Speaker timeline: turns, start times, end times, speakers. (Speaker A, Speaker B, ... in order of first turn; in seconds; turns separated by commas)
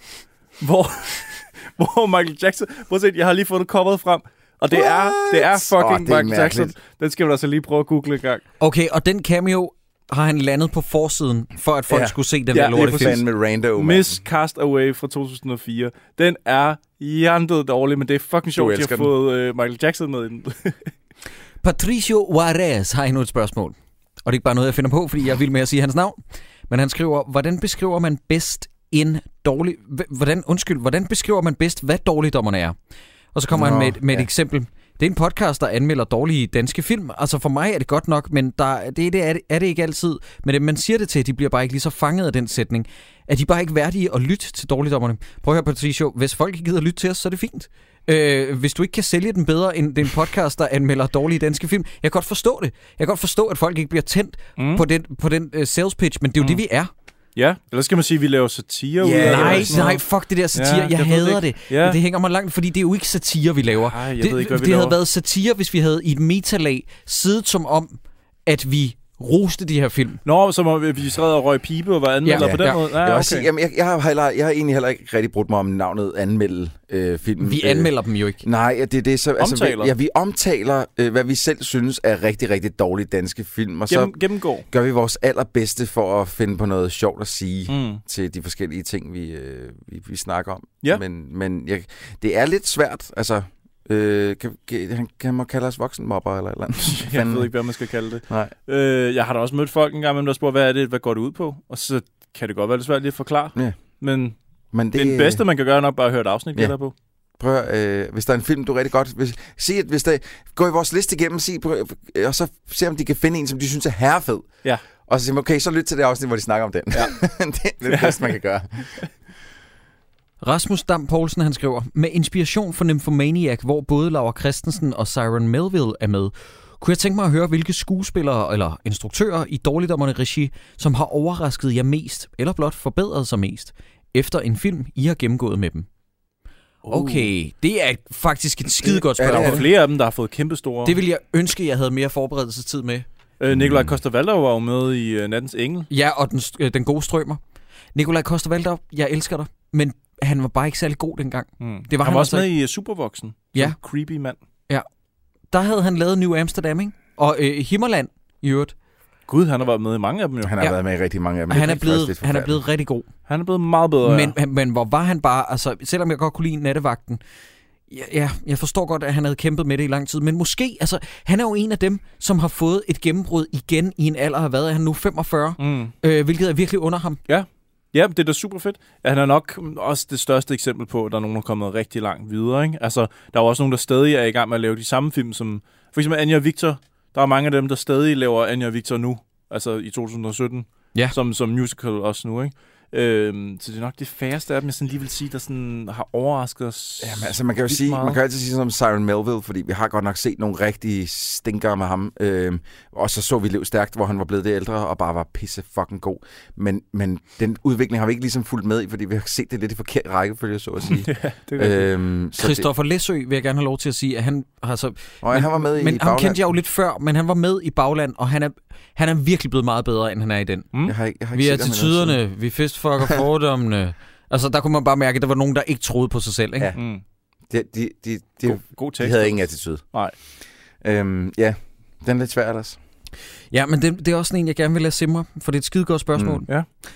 Speaker A: 0.6-8.4, Speaker B: 4.7-6.7, Speaker C: 8.6-13.2, Speaker B: 11.9-12.2, Speaker A: 12.5-13.3, Speaker B: 12.7-14.2, Speaker A: 13.8-20.9, Speaker B: 18.5-19.1, Speaker C: 21.6-23.7, Speaker C: 24.2-26.2, Speaker C: 26.7-32.8, Speaker C: 33.3-56.9, Speaker B: 33.5-34.3, Speaker A: 54.6-54.8, Speaker A: 57.4-62.0, Speaker B: 59.0-59.9, Speaker C: 59.2-70.2, Speaker A: 63.9-65.0, Speaker A: 70.2-73.5, Speaker C: 72.2-72.8, Speaker B: 72.4-84.1, Speaker C: 77.4-78.4, Speaker A: 79.4-79.9, Speaker A: 83.9-84.7, Speaker B: 84.7-97.5, Speaker A: 87.7-88.0, Speaker A: 96.9-104.3, Speaker B: 104.7-105.4, Speaker A: 104.9-106.9, Speaker B: 107.4-114.5, Speaker B: 115.1-119.0, Speaker A: 117.8-118.4, Speaker C: 120.4-135.9, Speaker A: 136.8-137.3, Speaker C: 136.9-139.7, Speaker A: 138.8-141.0, Speaker B: 139.2-139.6, Speaker C: 140.8-143.1, Speaker A: 143.4-145.9, Speaker B: 143.5-144.0, Speaker C: 145.9-147.4, Speaker C: 147.9-152.5, Speaker A: 151.6-154.4, Speaker C: 155.5-158.7, Speaker A: 159.3-160.7, Speaker B: 160.4-162.6, Speaker C: 161.5-163.1, Speaker A: 163.3-164.3, Speaker C: 164.0-167.2, Speaker C: 167.9-177.2, Speaker A: 175.6-175.9, Speaker A: 177.3-198.2, Speaker B: 197.0-212.7, Speaker A: 210.9-211.9, Speaker C: 212.4-220.7, Speaker B: 215.2-216.4, Speaker B: 220.8-222.2, Speaker C: 221.3-226.7, Speaker A: 226.8-227.0, Speaker B: 227.5-229.8, Speaker A: 228.5-230.2, Speaker B: 230.8-232.8, Speaker C: 233.5-236.5, Speaker B: 236.2-236.4